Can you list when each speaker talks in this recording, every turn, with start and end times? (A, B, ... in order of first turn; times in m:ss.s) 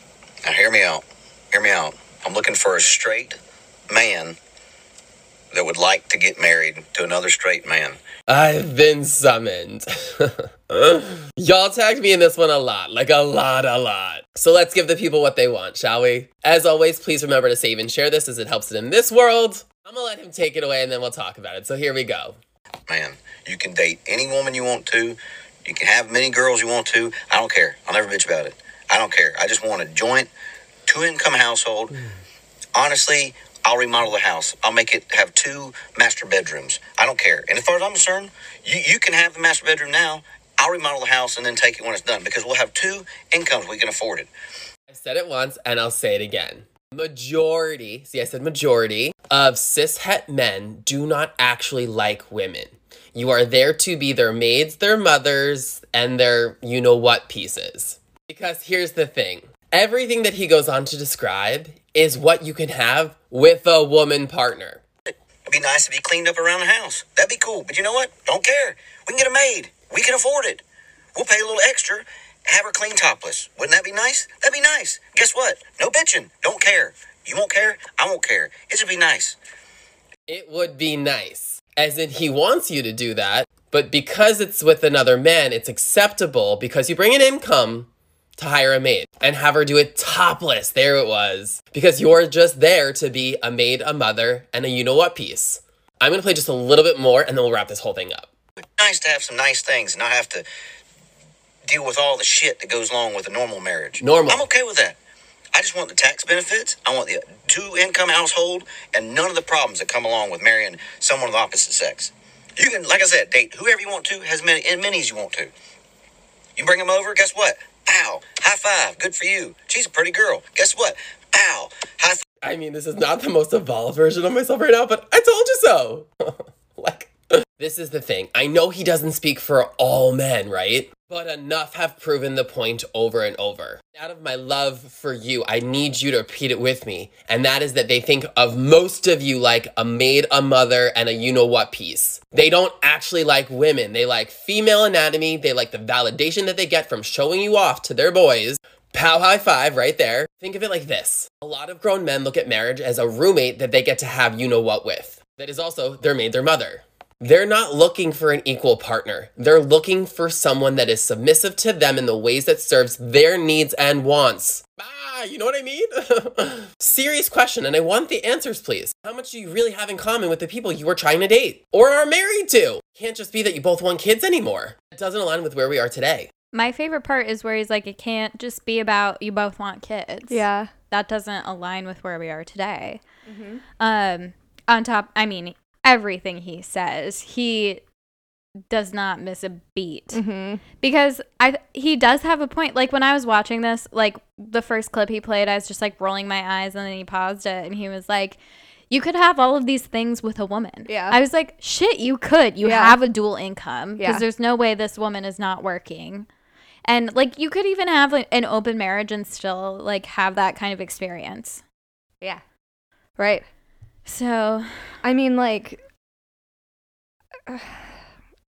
0:00.4-0:03.4 A
0:03.9-0:04.4 A
0:05.5-0:08.0 A
0:08.3-0:22.4 B
0:22.9-0:30.3 A
0:30.9-0:32.0 A
0:32.8-0:44.3 A
0:44.9-1:04.8 B
1:05.5-1:10.6 A
1:11.2-1:19.4 A
1:20.3-1:38.3 B
1:38.8-1:40.4 A
1:41.7-1:45.0 A
1:44.0-1:44.5 B
1:45.6-1:55.5 A
1:56.6-2:02.2 A
2:02.4-2:56.3 B
2:56.5-3:03.0 C
3:00.3-3:00.7 D
3:03.3-3:03.6 D
3:03.8-3:07.8 C
3:08.7-3:10.2 C
3:10.1-3:10.6 D
3:10.8-3:18.4 C
3:18.9-3:26.3 C
3:20.9-3:21.2 D
3:22.6-3:23.0 D
3:24.0-3:24.2 D
3:26.8-3:31.6 C
3:33.2-3:33.4 D
3:34.1-3:34.7 C
3:35.0-3:35.8 D
3:37.5-3:38.0 D